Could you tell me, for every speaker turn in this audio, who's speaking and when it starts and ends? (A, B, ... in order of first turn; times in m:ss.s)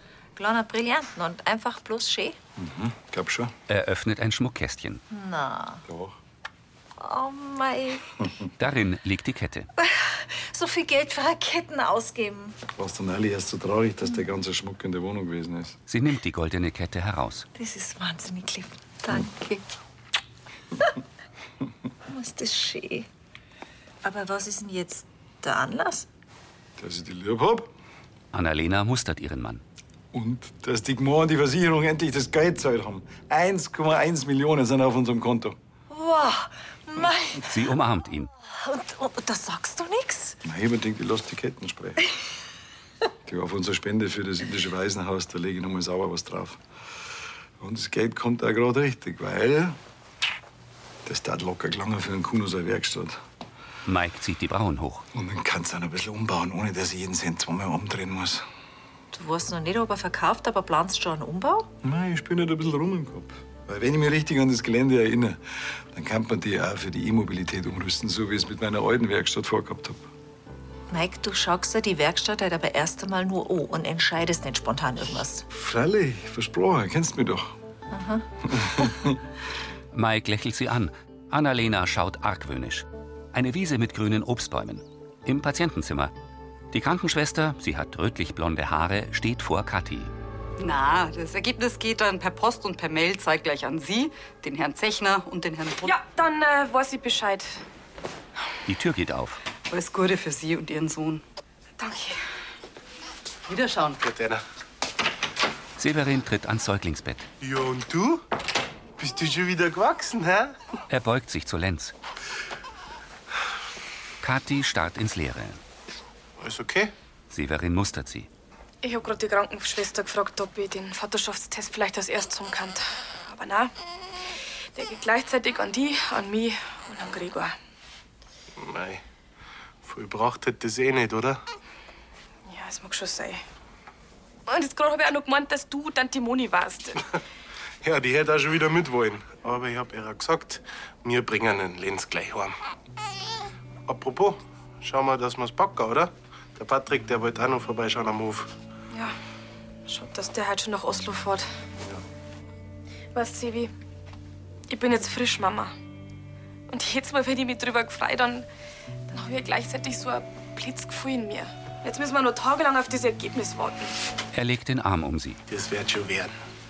0:00.4-0:02.4 A
0:02.6-0:03.5 B
0:03.7-0:05.0 C
0:05.1-0:05.8 A
0:05.9-0:06.2 B
0:07.0-0:08.1 A
0:08.6-0:09.7 C
0:09.8-0:12.6 A
0:12.8-0:15.8 B
0:15.9-0:17.5 C
0:17.6-0:19.6 A
0:22.1-0:23.1 A
0:24.0-0:26.1 A
0:26.8-0:27.7 B
0:28.3-0:29.6 C
0:30.1-0:35.6 B
0:35.9-0:37.5 A
0:37.4-0:38.3 C
0:38.5-0:40.4 A
0:40.4-0:42.0 B
0:43.2-0:46.6 B
0:47.6-0:49.8 B
0:51.0-0:53.2 B
0:53.9-0:55.1 C
0:55.1-0:58.4 B
0:59.1-1:01.7 A
1:01.8-1:10.0 B
1:10.9-1:15.4 A
1:15.5-1:17.6 B
1:17.9-1:18.3 A
1:18.5-1:19.2 B
1:19.9-1:26.1 C
1:26.7-1:30.1 C
1:30.6-1:36.0 D
1:35.8-1:37.6 E
1:38.7-1:39.4 C
1:39.7-1:41.2 D
1:41.8-1:42.2 E
1:43.5-1:44.0 D
1:44.0-1:44.4 F
1:45.8-1:47.3 C
1:47.4-1:48.2 F
1:49.0-1:50.6 F
1:50.9-1:51.9 C
1:54.2-1:55.6 C
1:56.4-1:56.9 F
1:57.3-1:58.3 C
1:58.8-2:03.7 E
2:04.8-2:07.6 E
2:08.6-2:09.0 F
2:09.8-2:11.4 F
2:12.5-2:13.4 E
2:14.5-2:17.0 E
2:17.8-2:22.5 F
2:23.9-2:28.5 F
2:28.9-2:29.2 E
2:29.9-2:31.5 E
2:33.1-2:33.7 E
2:34.7-2:35.8 E
2:36.7-2:38.5 E
2:39.1-2:44.0 E
2:44.3-2:45.4 C
2:45.5-2:46.3 F